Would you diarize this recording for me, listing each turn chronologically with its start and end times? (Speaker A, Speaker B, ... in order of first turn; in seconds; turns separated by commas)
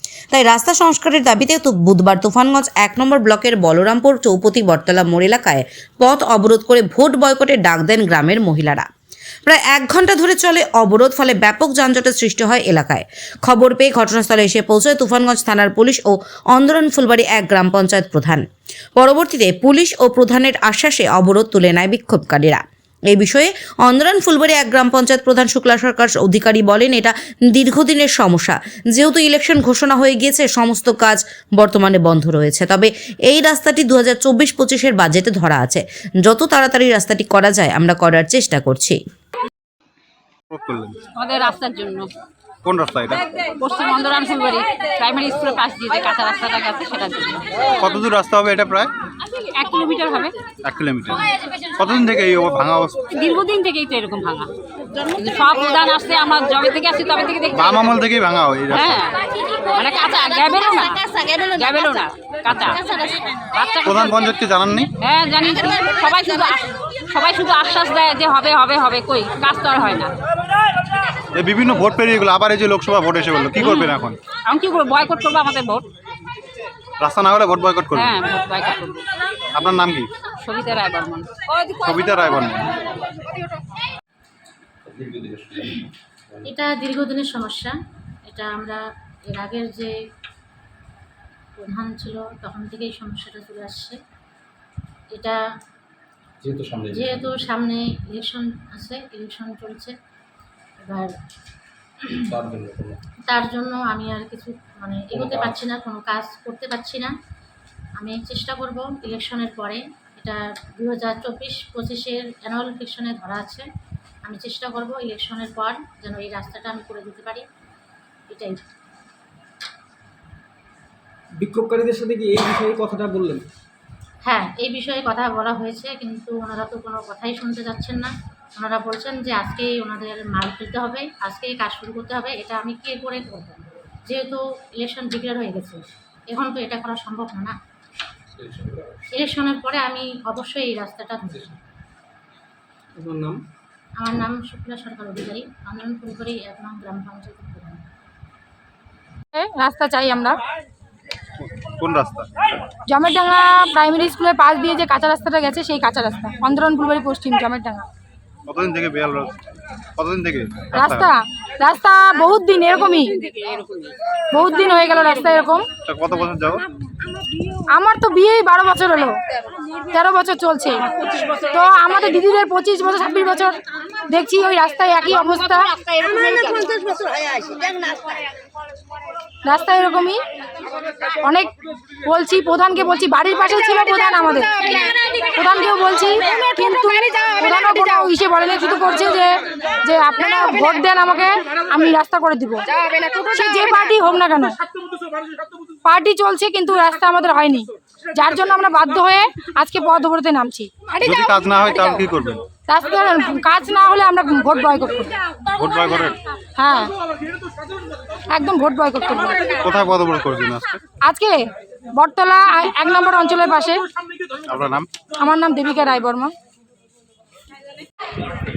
Speaker A: 0.3-8.9, Speaker A: 9.4-18.4, Speaker A: 19.0-39.0, Speaker B: 40.5-41.0, Speaker C: 41.1-42.1, Speaker B: 42.6-43.2, Speaker C: 43.6-47.4, Speaker B: 47.8-48.9, Speaker C: 49.4-50.4, Speaker B: 50.6-51.2, Speaker B: 51.8-52.9, Speaker C: 53.1-54.5, Speaker C: 55.1-57.7, Speaker B: 57.5-59.0, Speaker C: 58.7-62.8, Speaker C: 63.5-64.2, Speaker B: 63.8-64.9, Speaker C: 65.0-70.1, Speaker B: 71.3-74.2, Speaker C: 73.6-73.9, Speaker C: 74.5-75.8, Speaker B: 77.0-78.2, Speaker C: 77.9-79.0, Speaker B: 79.5-80.1, Speaker C: 80.4-81.7, Speaker B: 81.8-82.7, Speaker D: 84.8-85.8, Speaker E: 86.4-87.7, Speaker E: 88.3-89.9, Speaker E: 91.6-94.0, Speaker D: 96.4-97.5, Speaker E: 96.9-99.9, Speaker E: 100.8-101.1, Speaker D: 102.3-103.0, Speaker E: 103.3-107.1, Speaker D: 105.1-105.6, Speaker E: 108.0-113.7, Speaker E: 114.2-117.4, Speaker E: 118.3-118.6, Speaker F: 121.4-123.4, Speaker E: 124.2-137.5, Speaker D: 138.4-138.9, Speaker E: 139.2-141.6, Speaker F: 143.0-143.4, Speaker E: 144.0-147.8, Speaker G: 149.3-150.4, Speaker B: 151.4-152.3, Speaker G: 152.9-157.9, Speaker B: 158.5-159.3, Speaker B: 160.0-161.1, Speaker G: 160.7-163.1, Speaker C: 163.3-163.8, Speaker G: 164.3-165.7, Speaker B: 165.8-166.6, Speaker G: 167.7-169.2, Speaker G: 169.9-170.9, Speaker G: 171.5-175.7, Speaker G: 179.4-180.2, Speaker G: 181.2-181.5, Speaker G: 182.0-192.7, Speaker G: 193.2-194.5, Speaker G: 195.8-201.4, Speaker B: 201.0-202.4, Speaker G: 202.7-205.1, Speaker B: 205.6-206.2, Speaker G: 206.6-206.9, Speaker G: 208.3-209.4, Speaker B: 209.6-210.8, Speaker G: 211.0-211.4, Speaker G: 212.0-213.8, Speaker B: 214.5-214.9, Speaker G: 215.2-216.3